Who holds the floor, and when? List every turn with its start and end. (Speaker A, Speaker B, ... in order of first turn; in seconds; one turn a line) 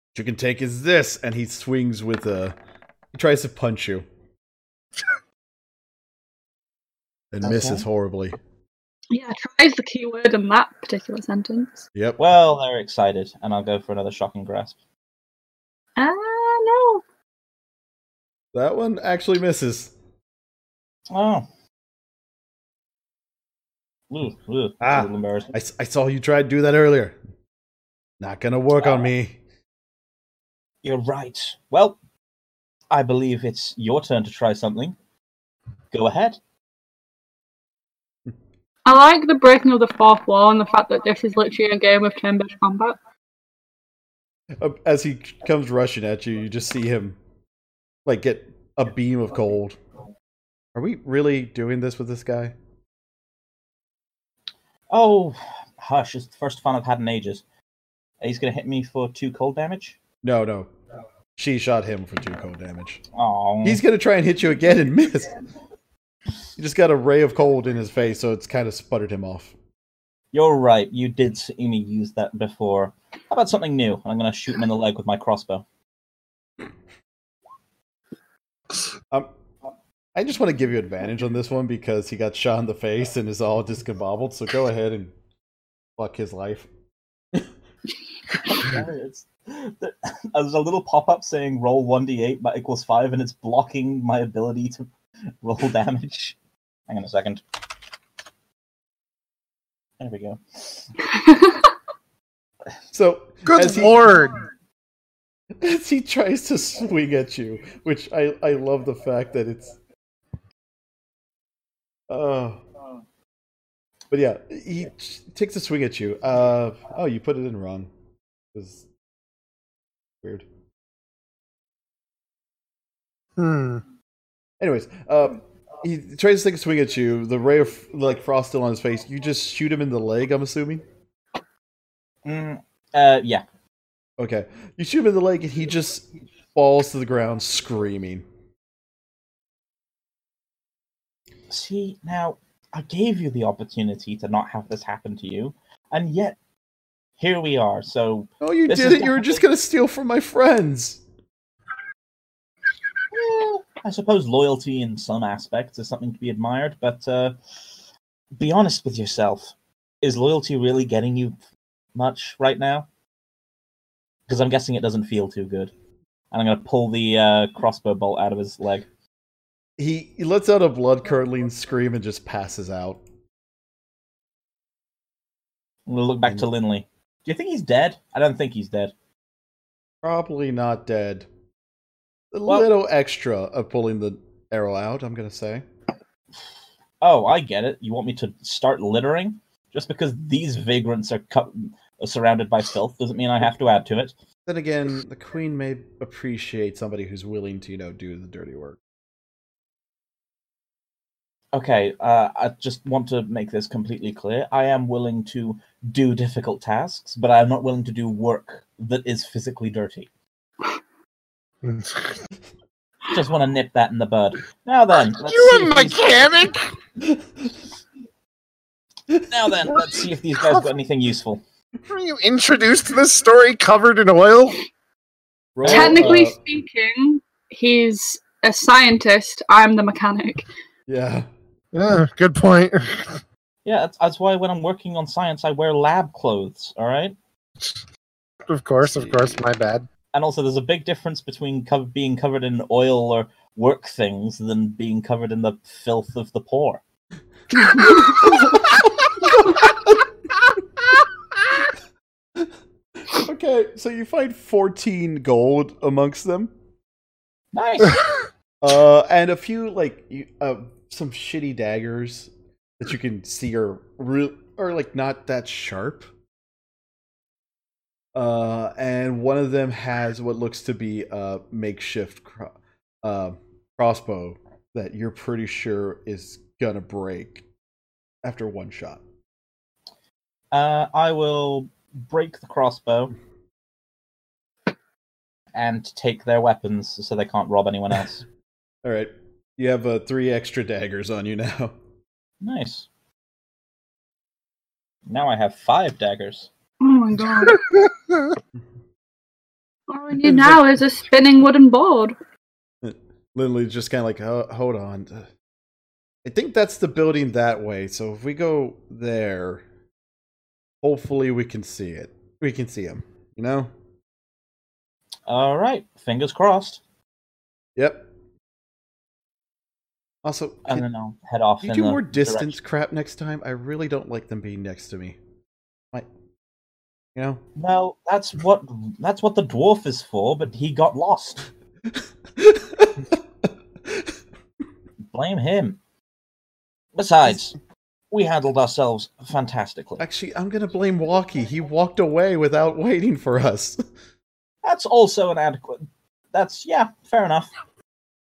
Speaker A: 0.1-2.6
Speaker A: 3.1-4.1
Speaker A: 7.3-8.4
Speaker B: 7.4-7.9
Speaker C: 9.1-11.8
Speaker B: 12.2-14.8
Speaker C: 16.0-17.0
Speaker A: 18.5-19.9
Speaker B: 21.1-21.4
Speaker B: 24.1-25.5
Speaker A: 24.8-27.2
Speaker A: 28.2-29.4
Speaker B: 28.8-29.1
Speaker B: 30.8-32.0
Speaker B: 32.9-35.0
Speaker B: 35.9-36.4
Speaker C: 38.9-43.0
Speaker A: 44.6-47.2
Speaker A: 48.1-49.8
Speaker A: 50.8-52.5
Speaker B: 54.9-57.4
Speaker B: 58.2-60.0
Speaker A: 60.2-60.7
Speaker A: 61.4-63.0
Speaker B: 63.1-63.8
Speaker A: 63.6-65.4
Speaker A: 66.6-69.5
Speaker B: 70.3-75.6
Speaker A: 80.2-85.1
Speaker A: 86.0-86.7
Speaker B: 88.4-94.9
Speaker B: 95.4-96.4
Speaker B: 96.9-97.4
Speaker B: 100.0-100.9
Speaker C: 101.2-101.7
Speaker A: 102.9-104.0
Speaker D: 103.5-104.4
Speaker A: 105.6-109.8
Speaker A: 112.1-112.6
Speaker A: 114.1-117.9
Speaker A: 118.5-118.8
Speaker D: 123.4-123.8
Speaker A: 124.6-130.8
Speaker B: 132.2-133.4
Speaker A: 134.2-138.2
Speaker B: 141.5-146.4
Speaker B: 147.2-149.4
Speaker A: 148.4-151.0
Speaker B: 153.1-157.4
Speaker B: 158.4-161.4
Speaker B: 161.9-162.9
Speaker B: 164.3-165.7
Speaker B: 166.3-168.9
Speaker A: 169.8-173.0
Speaker B: 175.9-178.9
Speaker A: 180.0-181.3
Speaker A: 182.3-185.6
Speaker B: 187.0-194.1
Speaker A: 194.5-198.8
Speaker B: 201.5-210.1
Speaker D: 211.6-212.2
Speaker B: 213.1-216.4
Speaker D: 215.1-216.6
Speaker B: 219.3-221.4
Speaker D: 221.9-224.6
Speaker A: 225.6-226.4
Speaker B: 225.6-226.3
Speaker C: 225.7-230.4
Speaker A: 230.9-231.3
Speaker D: 231.7-233.2
Speaker B: 233.7-237.2
Speaker D: 238.5-239.8
Speaker A: 238.9-239.3
Speaker B: 240.1-246.8
Speaker A: 247.5-250.0
Speaker A: 253.1-256.5
Speaker B: 257.5-258.3
Speaker A: 258.6-266.1
Speaker A: 268.1-277.4
Speaker A: 278.2-279.0
Speaker B: 280.5-283.1
Speaker B: 285.6-288.2
Speaker A: 288.8-291.7
Speaker B: 292.4-292.9
Speaker B: 295.1-296.5
Speaker C: 296.8-297.6
Speaker D: 297.5-298.4
Speaker C: 299.9-302.2
Speaker A: 300.2-300.6
Speaker A: 302.8-305.3
Speaker A: 306.2-309.6
Speaker A: 310.8-313.7
Speaker B: 315.3-316.8
Speaker A: 317.8-318.1
Speaker A: 320.2-320.8
Speaker B: 320.7-322.6
Speaker A: 321.6-325.2
Speaker A: 327.1-327.4
Speaker B: 327.6-331.5
Speaker A: 332.4-333.0
Speaker B: 335.1-335.8
Speaker B: 337.0-337.5
Speaker B: 338.1-340.0
Speaker A: 340.0-343.8
Speaker B: 344.6-347.5